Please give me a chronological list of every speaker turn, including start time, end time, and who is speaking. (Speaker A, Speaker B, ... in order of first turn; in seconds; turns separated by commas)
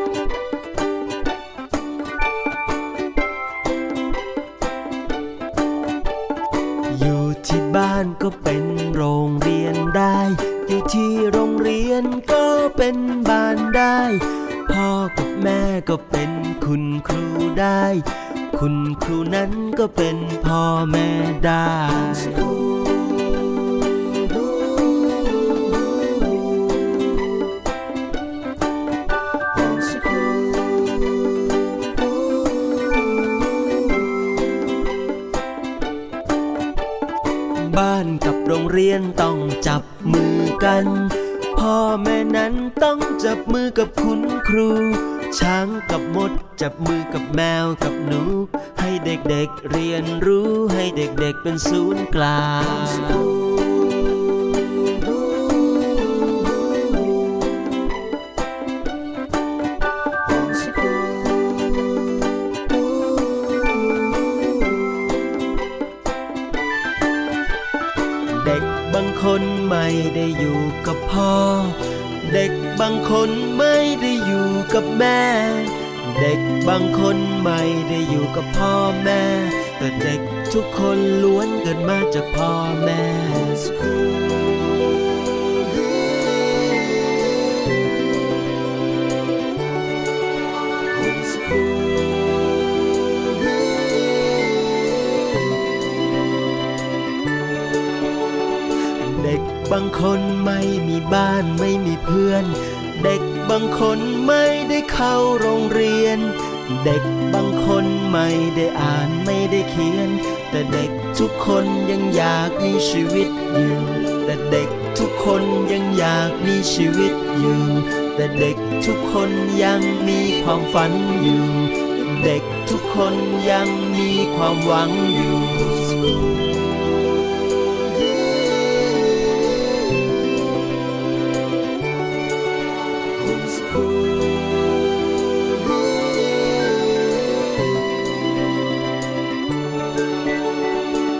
Speaker A: 6.9-22.5, Speaker A: 37.5-53.3, Speaker A: 68.3-83.7, Speaker A: 99.0-126.2